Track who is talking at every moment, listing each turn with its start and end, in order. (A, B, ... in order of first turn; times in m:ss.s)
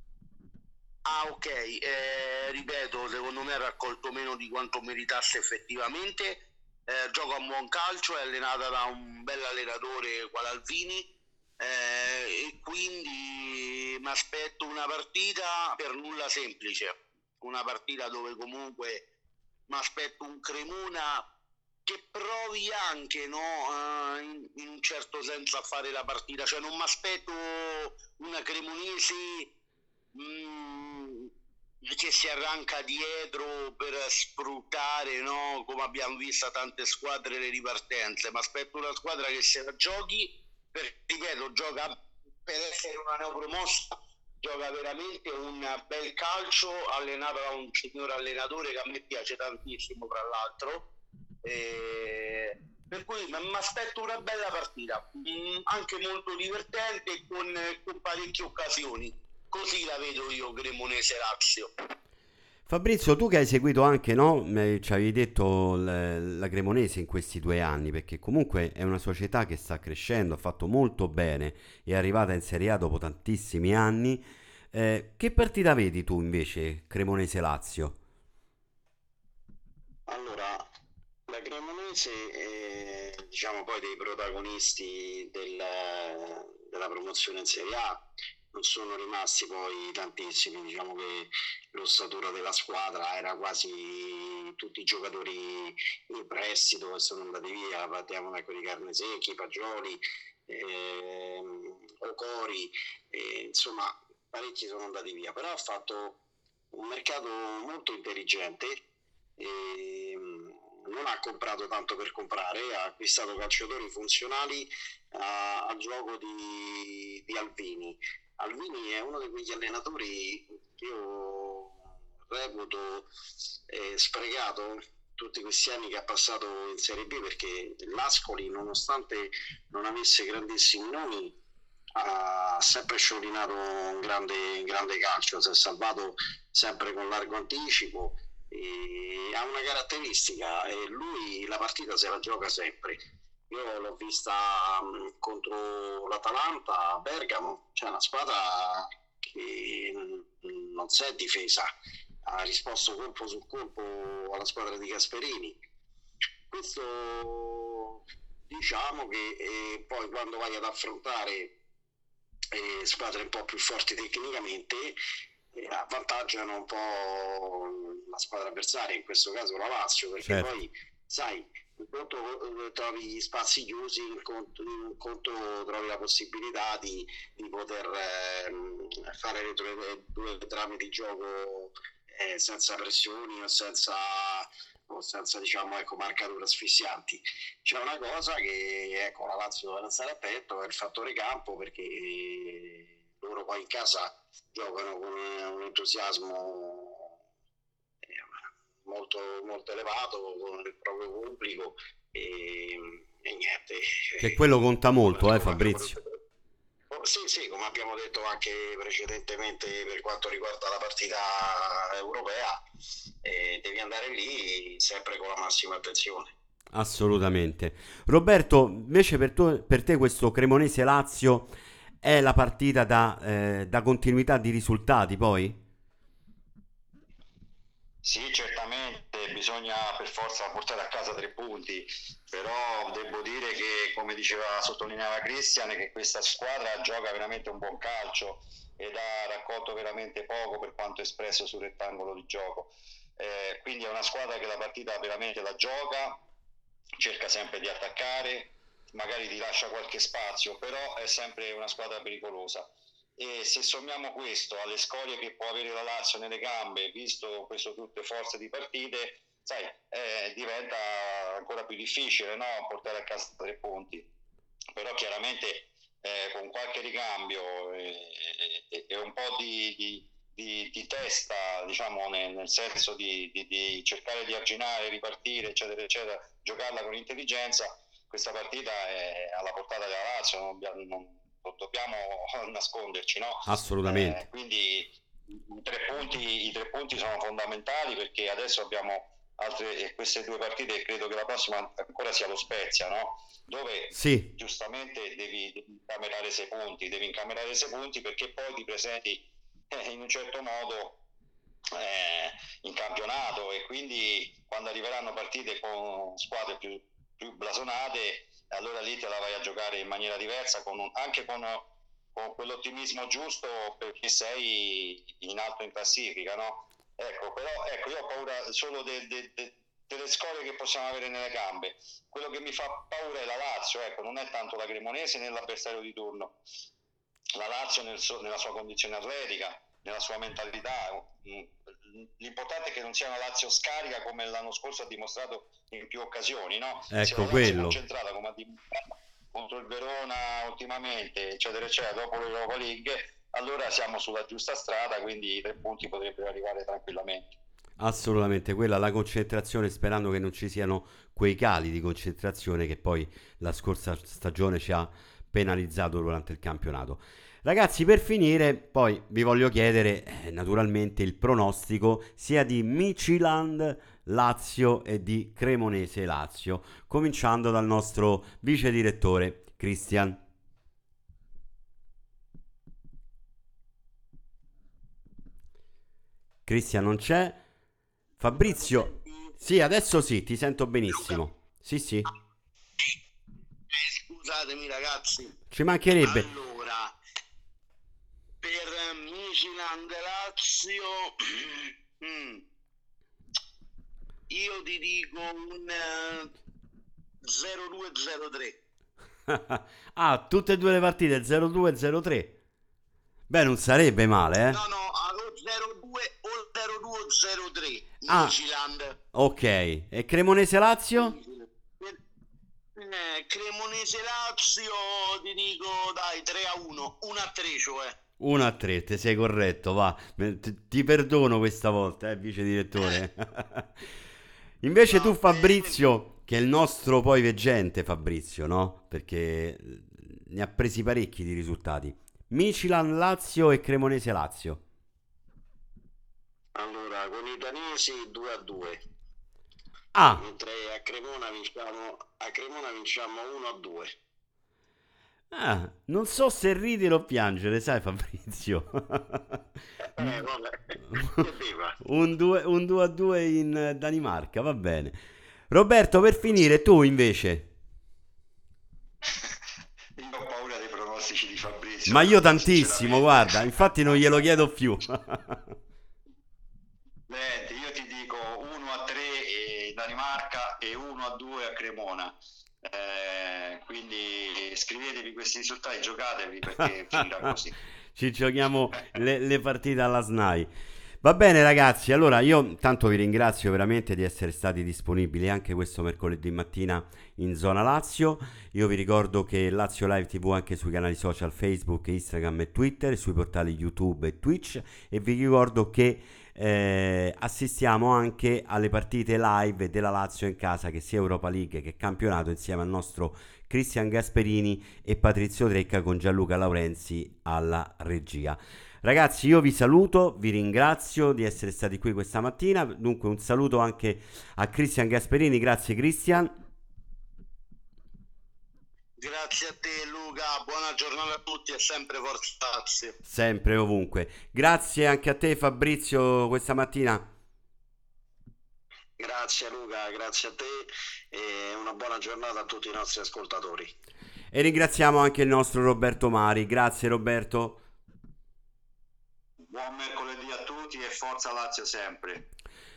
0:01.0-0:19.0 A
0:19.7-0:21.2 A
0:21.9-0:29.5 A
0:30.1-0:31.3 A
0:31.8-0:50.9 A
0:51.4-1:01.7 A
1:02.7-1:18.0 B
1:20.1-1:20.7 C
1:21.3-1:46.2 C
1:46.7-1:48.8 C
1:49.4-2:03.1 C
2:03.7-2:11.4 C
2:12.0-2:31.7 C
2:32.2-2:35.6 C
2:36.5-2:41.5 C
2:42.5-2:45.0 C
2:45.5-3:17.2 C
2:50.2-2:50.5 B
3:18.8-3:24.4 C
3:24.2-3:26.0 B
3:25.1-3:26.2 C
3:26.9-3:32.6 C
3:33.2-3:36.3 C
3:36.7-3:45.6 B
3:48.0-4:06.2 D
4:07.0-4:24.0 D
4:24.8-5:01.0 D
4:43.5-4:44.2 B
4:53.9-4:54.3 B
5:01.7-5:26.4 D
5:27.4-5:47.4 D
5:36.9-5:37.8 B
5:47.8-6:10.2 B
6:16.5-6:17.4 B
6:18.2-6:22.1 B
6:18.4-6:19.4 A
6:20.9-6:21.3 A
6:23.7-6:25.4 A
6:25.5-6:26.3 B
6:26.0-6:27.0 A
6:28.4-6:32.4 A
6:34.3-6:36.3 A
6:37.2-6:38.6 A
6:39.3-6:42.3 B
6:43.3-6:44.6 B
6:44.5-6:49.0 A
6:48.1-6:48.4 B
6:49.1-6:51.2 B
6:50.9-6:52.0 A
6:52.8-6:58.0 A
6:58.2-7:03.7 B
7:04.6-7:14.6 B
7:04.9-7:05.8 A
7:16.6-7:18.8 C
7:19.9-7:20.2 B
7:20.2-7:24.0 C
7:25.3-7:29.4 B
7:29.8-7:31.8 C
7:31.8-7:37.5 B
7:40.0-7:44.0 D
7:41.9-7:45.6 B
7:47.1-7:57.6 D
7:58.0-8:00.5 B
8:01.0-8:36.3 B
8:39.0-8:43.0 A
8:43.0-8:47.0 B
8:49.0-8:53.7 C
8:54.3-8:57.6 B
8:59.5-9:02.3 D